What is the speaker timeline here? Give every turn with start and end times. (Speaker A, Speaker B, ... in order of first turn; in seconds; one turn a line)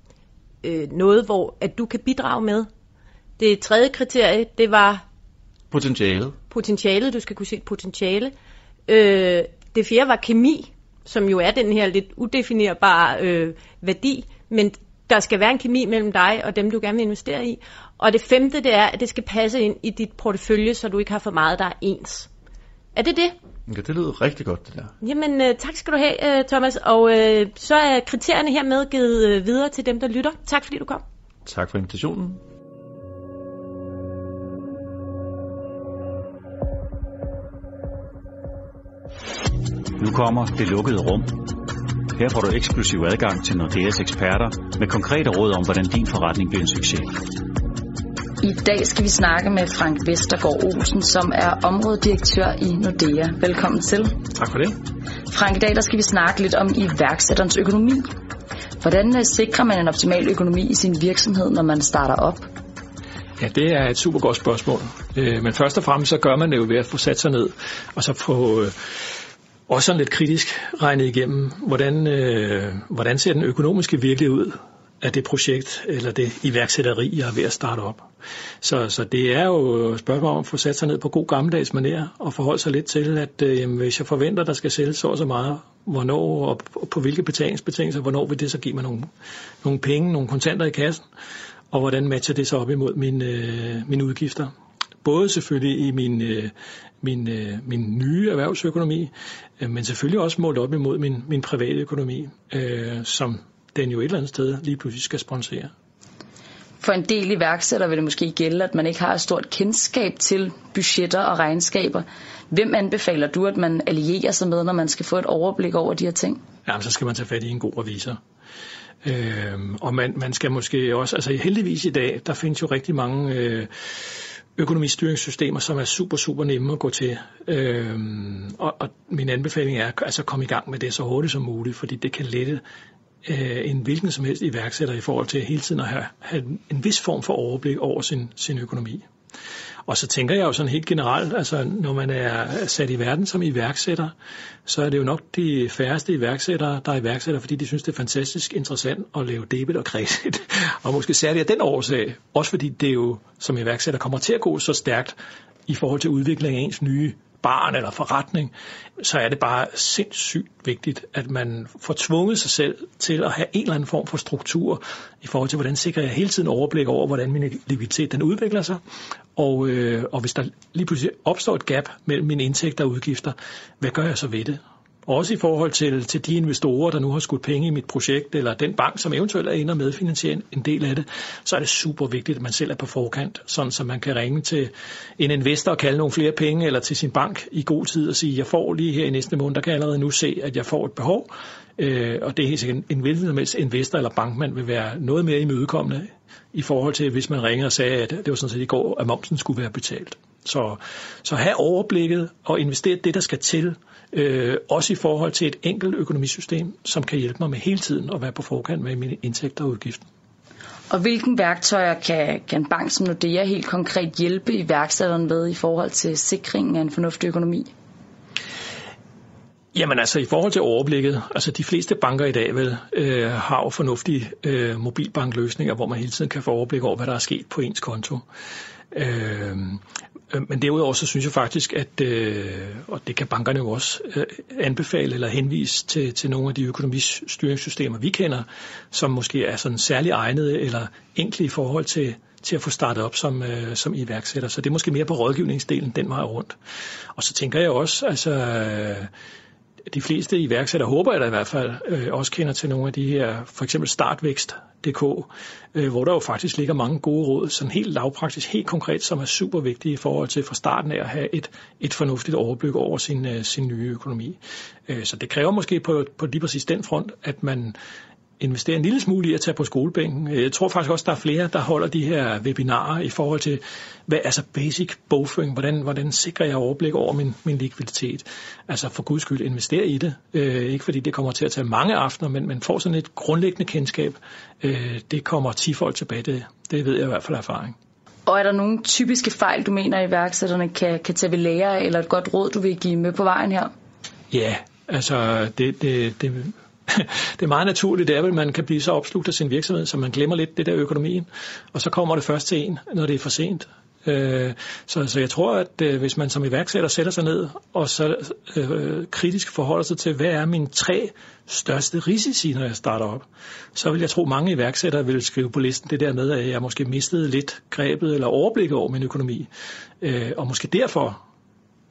Speaker A: 0.6-2.7
Speaker A: 3.4-5.0
Speaker B: 5.7-6.4
Speaker A: 6.5-8.3
Speaker A: 8.9-22.3
Speaker A: 22.9-23.3
Speaker B: 23.7-24.9
Speaker A: 25.0-31.0
Speaker B: 31.4-32.4
Speaker C: 40.0-41.3
Speaker C: 42.1-47.1
Speaker D: 48.4-54.2
Speaker E: 54.3-54.8
Speaker D: 55.3-58.1
Speaker D: 58.8-62.5
Speaker E: 63.4-68.8
Speaker E: 69.7-78.1
Speaker E: 78.6-89.1
Speaker E: 89.6-91.0
Speaker E: 91.7-94.5
Speaker E: 95.0-105.7
Speaker D: 106.8-116.4
Speaker E: 116.7-118.2
Speaker E: 119.0-123.7
Speaker E: 124.5-132.6
Speaker E: 133.2-139.1
Speaker E: 139.8-144.1
Speaker E: 144.7-155.2
Speaker E: 155.7-168.8
Speaker E: 169.3-210.0
Speaker D: 210.9-217.7
Speaker E: 219.7-228.2
Speaker E: 228.9-246.6
Speaker E: 247.1-249.1
Speaker E: 249.9-267.8
Speaker E: 268.4-287.8
Speaker D: 288.2-293.7
Speaker E: 294.3-319.5
Speaker E: 320.0-321.2